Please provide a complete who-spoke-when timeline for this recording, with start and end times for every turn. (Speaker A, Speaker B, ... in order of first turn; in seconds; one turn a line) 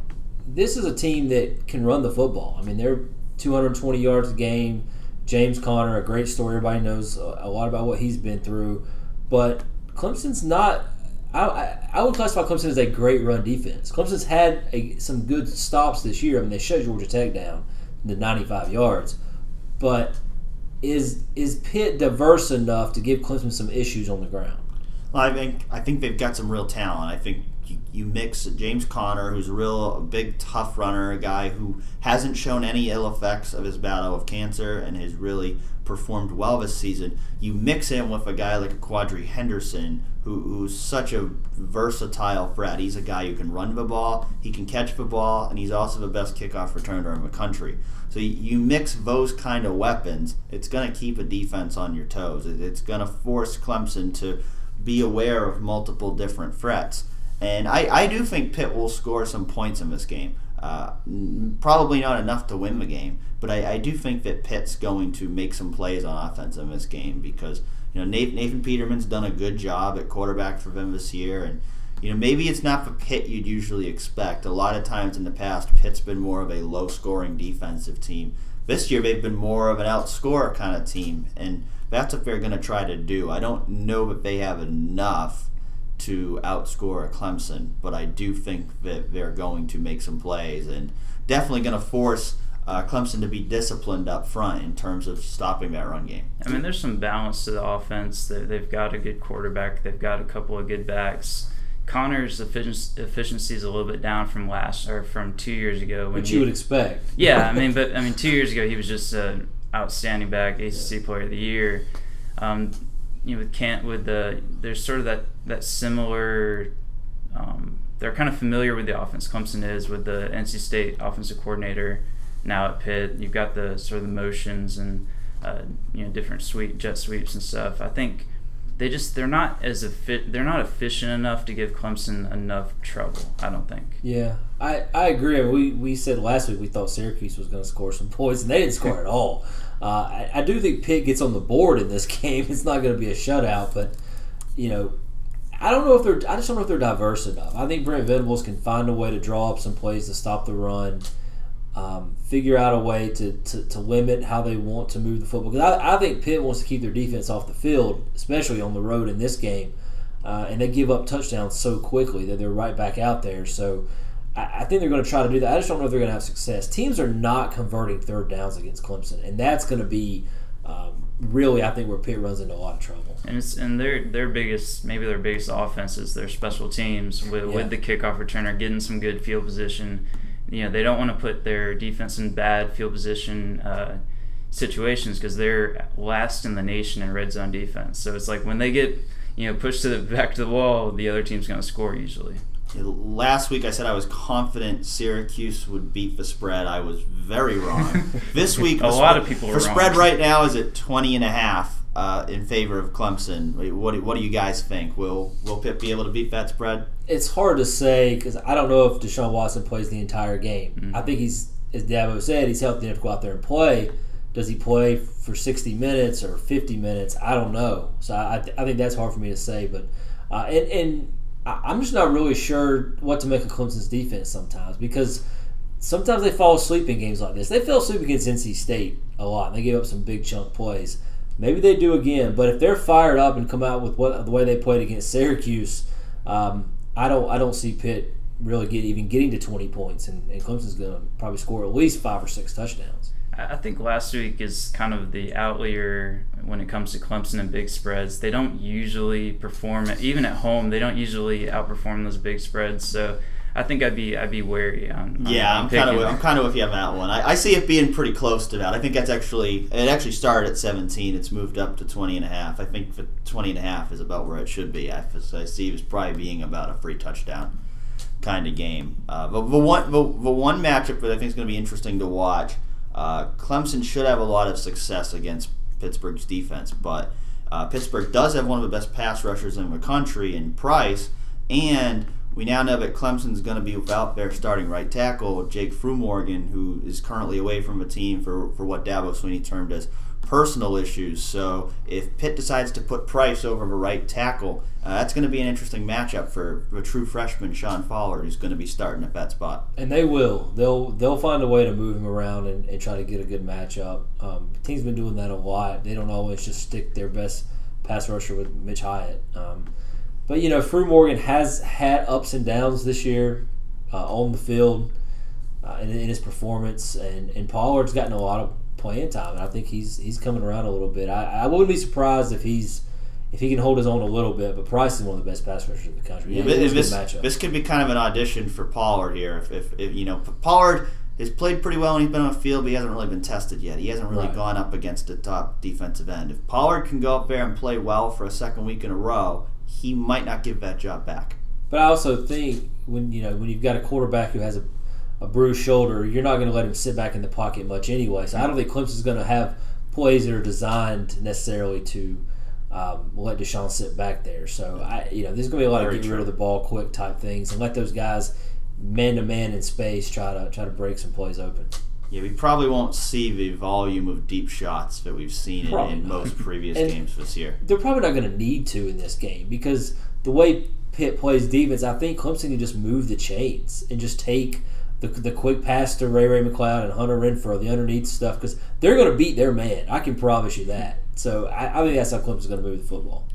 Speaker A: 0.5-19.1
Speaker A: 19.8-20.1
Speaker A: 20.8-24.6
Speaker B: 25.1-96.3
Speaker C: 96.4-106.5
Speaker A: 106.1-107.1
Speaker C: 107.2-111.8
Speaker C: 112.4-112.7
Speaker C: 113.2-116.7
Speaker C: 117.3-128.3
Speaker C: 128.8-134.0
Speaker A: 134.0-143.9
Speaker A: 144.6-144.9
Speaker A: 145.6-151.1
Speaker A: 151.7-159.7
Speaker A: 160.2-173.2
Speaker C: 173.2-184.0
Speaker A: 177.4-177.7
Speaker C: 184.5-192.4
Speaker B: 192.7-206.9
Speaker C: 198.7-200.0
Speaker A: 207.1-225.2
Speaker C: 210.8-211.0
Speaker A: 225.8-243.1
Speaker C: 243.3-256.2
Speaker B: 255.2-267.5
Speaker B: 268.2-299.6
Speaker A: 299.8-309.7
Speaker A: 310.3-314.9
Speaker A: 315.6-327.3
Speaker B: 326.3-341.4
Speaker A: 334.1-334.4
Speaker A: 341.7-344.6
Speaker A: 345.2-361.7
Speaker B: 355.7-356.3
Speaker B: 362.1-367.6
Speaker A: 365.6-366.9
Speaker A: 367.6-383.2